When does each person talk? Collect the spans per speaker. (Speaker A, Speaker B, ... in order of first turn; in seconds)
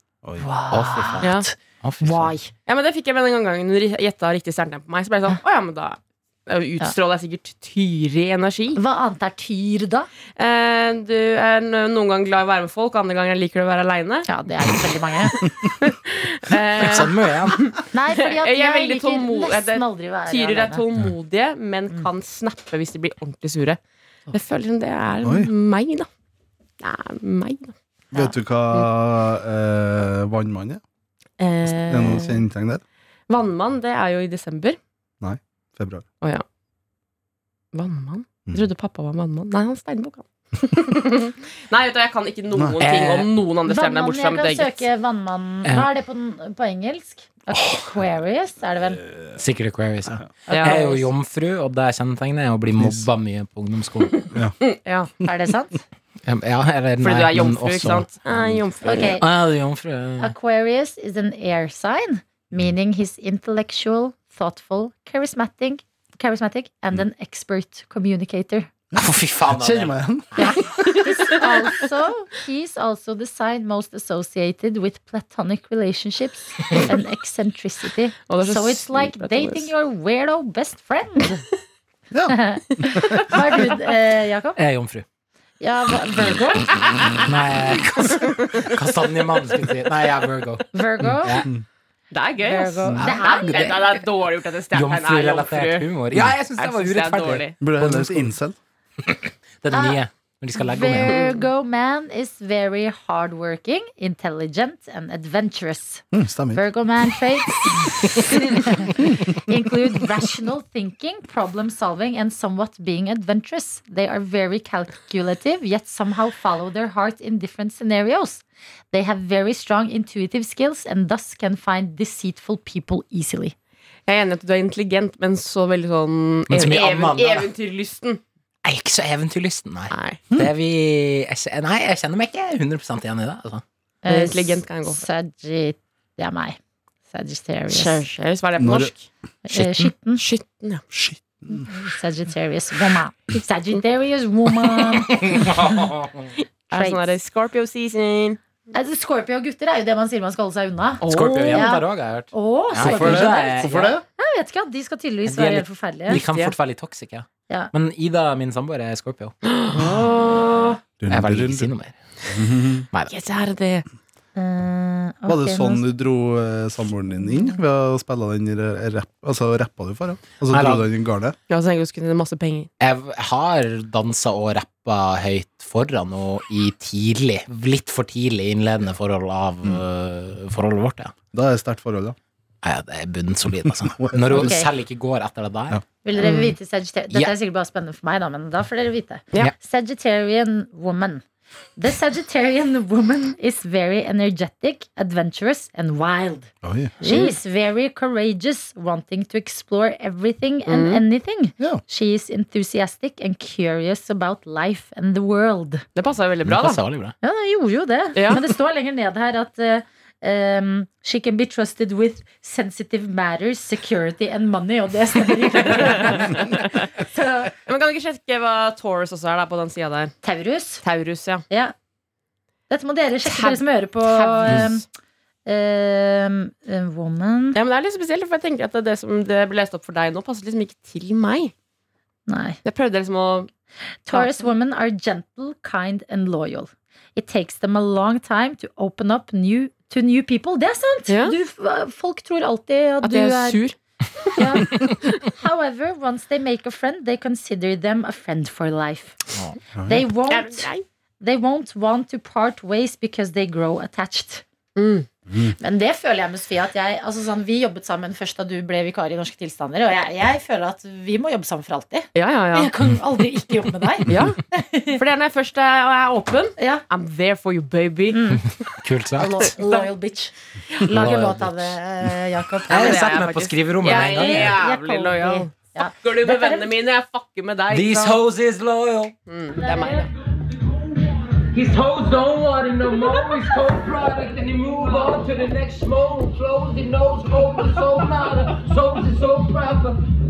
Speaker A: 0.4-2.5, 8.8-10.1, 14.3-15.4, 17.9-20.8, 43.7-49.0, 50.5-51.1, 55.2-55.8, 58.8-59.3, 60.2-68.7, 70.4-81.4, 82.3-84.6, 85.6-86.8, 90.7-91.5, 92.4-93.9, 99.7-100.0, 100.5-123.5, 134.0-136.6, 137.1-138.1, 139.4-140.2, 141.6-145.5, 146.7-147.2, 148.7-156.2, 159.7-160.8, 164.3-165.8, 167.3-167.6, 184.3-184.7, 186.0-191.2, 191.8-196.5, 197.0-205.8, 207.2-216.6, 217.1-217.5, 220.2-220.8, 221.5-221.7, 222.7-224.8, 225.5-227.6, 232.3-232.6, 234.1-243.6, 244.4-249.2, 249.9-250.7, 251.2-254.4, 255.6-265.0, 266.6-266.9, 268.1-268.4, 269.2-273.2, 273.8-276.7, 279.6-280.1
Speaker B: 0.7-2.3, 16.8-17.7, 42.8-43.3, 49.4-54.2, 56.2-60.3, 69.0-70.6, 84.6-85.0, 87.2-91.5, 93.0-93.9, 94.7-98.3, 99.0-101.3, 126.5-127.5, 128.6-133.6, 139.5-139.9, 145.1-146.3, 151.1-154.0, 155.3-159.3, 161.1-162.0, 170.5-170.9, 172.8-181.1, 182.6-185.8, 206.4-207.1, 268.8-269.5, 270.9-271.8, 272.7-274.6, 277.7-279.1
Speaker C: 1.2-1.5, 2.7-8.8, 10.4-14.3, 15.8-23.8, 24.3-26.1, 26.8-27.8, 31.4-32.4, 33.3-34.8, 37.7-44.9, 50.5-50.9, 54.6-55.1, 57.0-59.2, 70.8-71.5, 78.3-79.7, 92.1-95.9, 96.5-97.6, 101.1-101.3, 124.1-128.2, 129.9-130.2, 134.1-135.1, 137.7-139.1, 140.2-140.8, 146.7-148.4, 151.0-151.8, 153.1-153.3, 156.1-156.6, 159.5-160.8, 163.1-163.8, 171.5-172.7, 186.2-186.6, 197.0-197.4, 200.7-201.0, 205.9-206.8, 208.2-208.4, 215.6-216.9, 217.7-220.1, 220.8-221.4, 223.2-224.8, 227.5-231.5, 232.6-233.5, 234.1-234.5, 241.1-241.4, 243.0-243.8, 250.3-250.8, 254.8-255.1, 262.1-262.7, 264.1-264.4, 264.9-268.4, 269.4-269.9, 272.7-278.2, 279.3-280.1
Speaker D: 25.2-25.5, 28.1-30.8, 31.7-32.8, 35.2-36.0, 47.5-47.9, 49.0-49.4, 52.8-53.0, 68.9-70.8, 82.1-83.4, 96.1-96.4, 97.6-98.6, 106.1-106.6, 109.0-109.4, 138.6-138.9, 140.9-141.7, 152.8-154.0, 161.0-161.7, 162.3-162.9, 165.3-171.4, 181.3-182.2, 184.0-184.5, 196.6-197.0, 249.8-250.1, 255.3-255.6
Speaker E: 280.5-290.0